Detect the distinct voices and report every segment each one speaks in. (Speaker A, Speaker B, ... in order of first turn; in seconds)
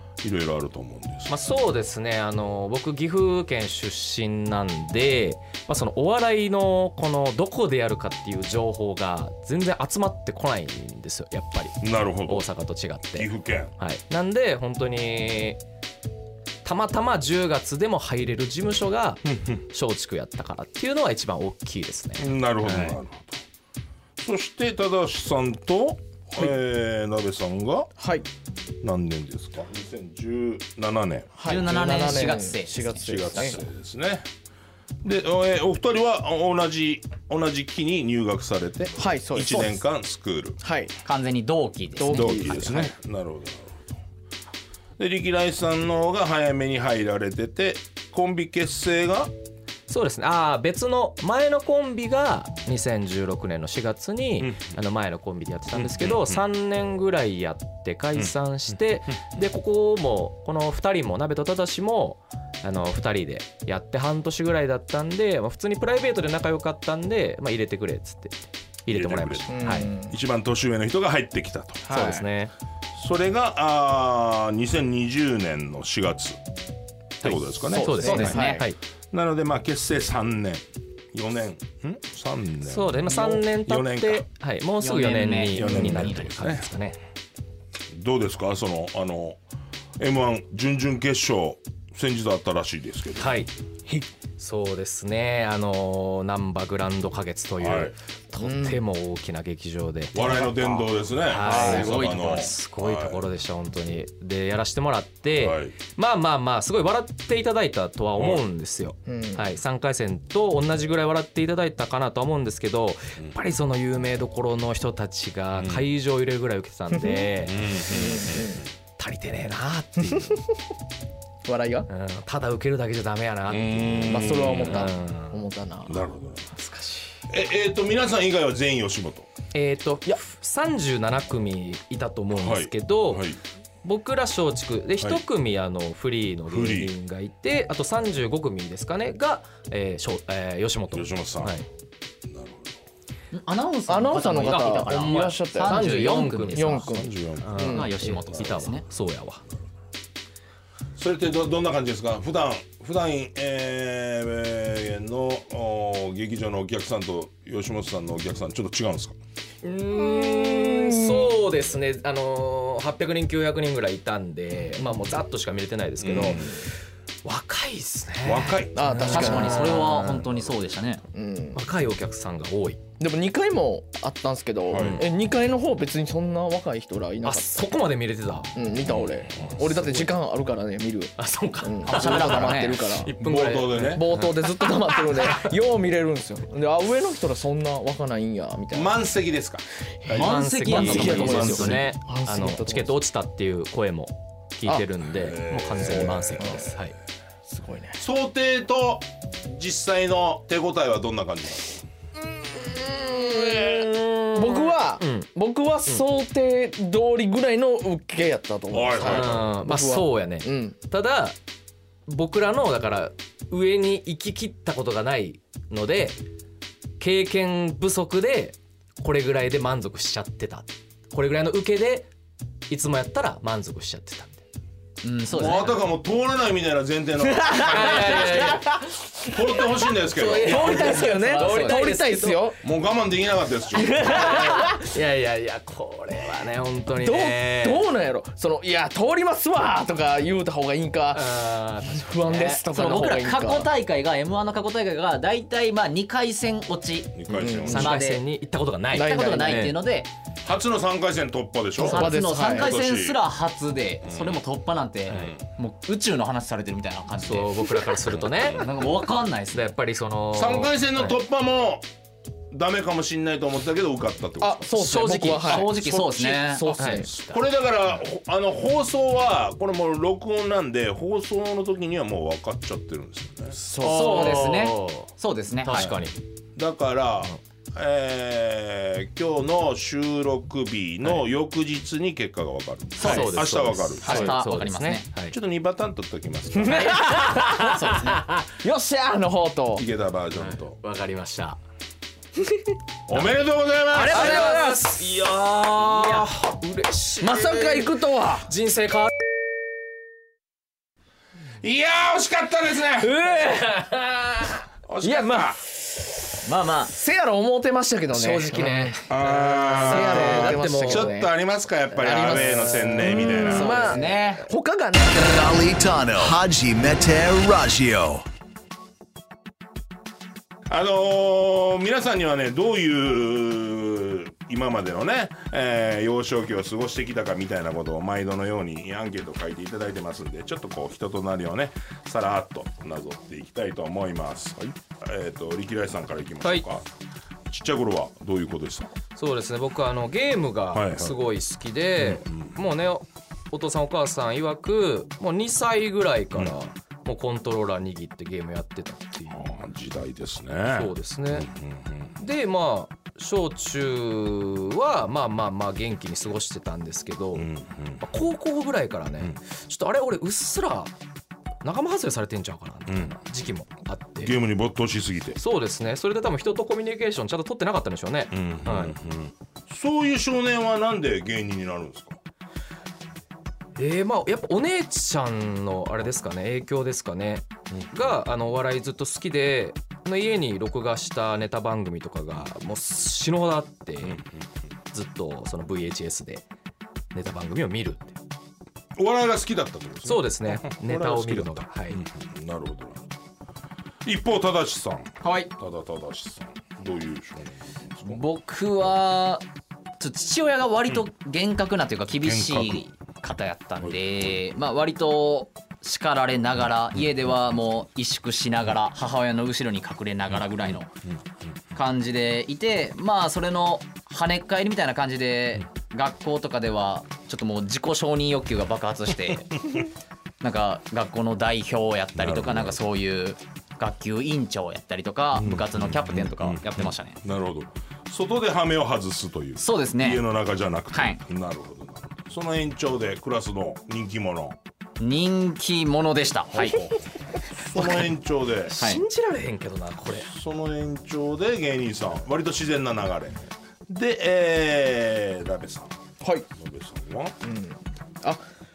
Speaker A: 0.2-1.7, 11.8-12.5, 13.2-13.7, 19.2-19.6, 22.2-23.4, 24.2-27.9, 28.8-31.3, 33.0-34.3, 35.0-40.6, 42.1-44.0, 45.0-49.3, 54.4-54.7, 55.7-56.4, 68.9-71.8, 72.9-76.4, 77.2-78.6, 79.1-84.2, 85.5-86.7, 87.9-89.4, 90.0-93.5, 97.6-98.0, 100.1-103.2, 105.3-105.8, 108.2-108.4, 115.6-115.9, 117.5-118.7, 123.5-124.9, 125.9-126.4, 127.3-129.3, 132.3-133.4, 136.5-136.9, 140.9-141.7, 142.3-142.8, 146.9-148.7, 151.0-159.2, 166.0-166.6, 168.2-169.0, 174.7-175.1, 178.8-179.5, 183.2-184.1, 188.7-189.7, 190.7-191.9, 195.1-196.7, 198.0-201.8, 208.7-209.5, 225.3-228.6, 229.2-231.1, 232.6-234.4, 247.1-247.9, 250.4-253.2, 254.0-254.4, 255.1-255.4, 258.2-258.9, 260.3-261.9, 262.5-264.6, 267.1-273.6, 276.6-284.4, 285.3-287.0, 289.8-290.8, 293.1-294.5, 301.6-303.2, 304.9-305.6, 309.1-313.9, 320.7-336.9, 337.5-338.9, 340.7-341.2, 342.0-342.6, 349.3-352.1, 357.3-358.1, 362.9-363.1, 364.2-365.4, 368.3-372.2, 384.0-384.4, 389.0-393.1, 394.1-398.2, 402.2-402.9, 403.8-404.4, 422.2-422.8, 425.4-434.6, 436.6-438.9, 440.1-445.9, 446.6-447.4
Speaker B: 1.3-15.6, 16.6-23.0, 49.9-69.9, 71.9-72.5, 77.2-78.8, 82.6-87.0, 93.2-93.5, 94.4-100.5, 101.2-117.8, 119.0-120.3, 121.9-125.4, 126.5-127.2, 129.5-133.2, 133.8-141.7, 144.9-146.9, 147.4-149.4, 159.6-166.4, 167.2-170.2, 171.5-172.8, 174.8-175.1, 177.2-178.5, 179.4-180.1, 181.2-185.5, 190.1-197.0, 203.3-205.3, 209.0-211.4, 212.1-216.2, 217.0-222.1, 222.7-224.4, 227.7-228.7, 230.2-232.5, 234.1-237.9, 241.1-242.8, 247.7-249.8, 255.1-255.3, 257.2-258.7, 259.5-261.2, 264.8-265.7, 266.8-267.4, 273.8-275.1, 275.6-276.2, 283.0-285.4, 286.7-288.5, 290.4-291.6, 293.1-293.4, 294.0-299.1, 303.0-305.3, 308.1-311.1, 339.2-349.4, 350.7-351.5, 352.2-357.5, 358.0-360.9, 361.6-364.4, 365.4-369.0, 373.8-384.2, 384.9-386.4, 387.1-388.2, 390.1-392.0, 438.7-440.3
Speaker C: 28.0-28.3, 31.4-33.6, 39.0-39.8, 40.6-40.9, 42.0-42.9, 69.5-70.2, 71.8-72.3, 77.6-78.7, 98.4-98.8, 100.2-100.7, 101.4-102.0, 109.1-109.6, 116.9-117.2, 117.9-118.6, 120.1-120.4, 121.4-121.9, 124.0-126.1, 143.9-145.9, 146.5-147.9, 159.9-161.3, 168.7-170.0, 171.1-171.6, 173.0-177.7, 178.6-183.1, 183.8-188.9, 190.1-193.0, 196.3-196.7, 197.5-198.0, 202.2-210.8, 227.2-232.6, 233.7-234.8, 237.0-243.7, 247.3-247.9, 248.9-249.8, 251.8-252.8, 264.4-267.1, 273.5-274.4, 283.0-283.3, 286.5-288.0, 288.6-289.9, 292.4-292.7, 293.9-295.0, 297.2-298.5, 305.0-306.1, 306.9-311.3, 311.9-315.6, 446.2-446.5, 447.4-448.4
Speaker D: 31.4-33.6, 41.0-42.5, 77.9-78.6, 84.8-86.3, 101.4-102.5, 143.3-146.8, 147.6-148.8, 169.1-171.0, 181.9-182.9, 190.1-191.8, 225.0-225.8, 230.5-231.8, 242.7-248.2, 249.0-250.1, 251.8-257.9, 258.5-259.7, 265.3-266.7, 273.8-276.0, 283.0-283.4, 284.0-285.1, 287.6-288.2, 306.4-306.9, 313.4-314.5, 395.2-395.5, 398.1-399.4, 400.0-410.9, 411.8-419.7, 420.4-427.2, 429.6-430.2, 430.9-431.2, 435.0-436.8
Speaker E: 315.1-318.2